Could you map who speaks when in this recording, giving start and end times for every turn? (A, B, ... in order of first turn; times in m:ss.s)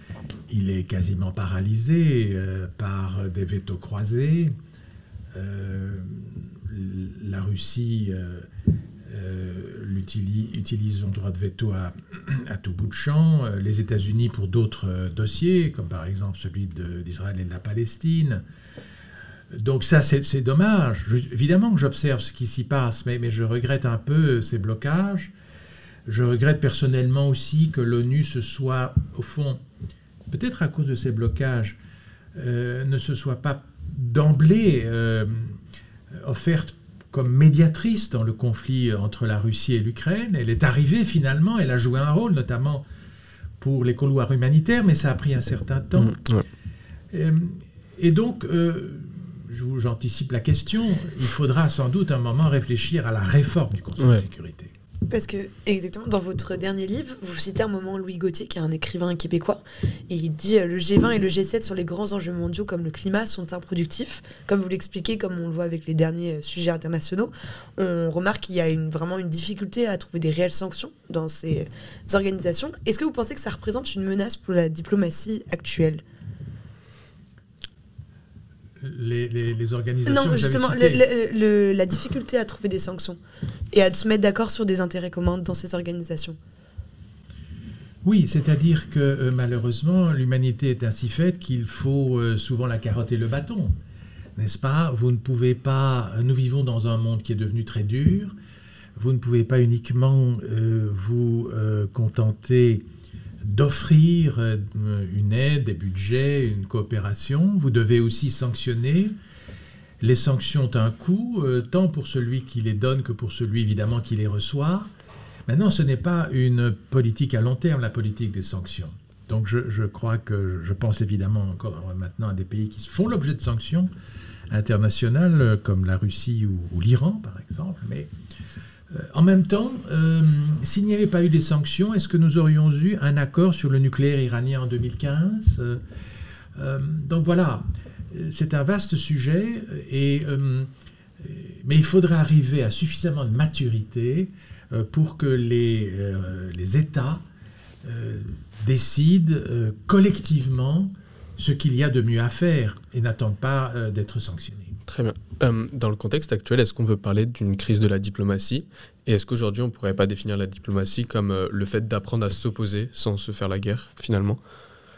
0:00.5-0:04.5 A
0:05.3-0:08.5 A
0:09.0-0:18.4 A
0:19.5-0:25.3 A
0:26.0-0:29.6 A
0:30.3-0:31.8 A
0:32.3-0:35.6 A
0:36.1-0:42.8 A
0:43.6-0:46.2 A
0:46.0-0:46.4 B
0:47.1-0:54.7 A
0:54.0-0:54.2 B
0:55.1-1:16.0 C
1:18.8-1:21.0 A
1:20.0-1:23.2 C
1:23.7-1:26.4 C
1:28.0-1:33.7 A
1:34.4-1:38.3 A
1:39.0-1:42.8 A
1:43.4-1:49.1 A
1:50.0-1:54.9 A
1:55.5-2:03.9 A
2:04.5-2:08.1 A
2:08.9-2:15.8 A
2:16.5-2:27.2 A
2:27.8-2:34.8 A
2:34.9-2:44.4 B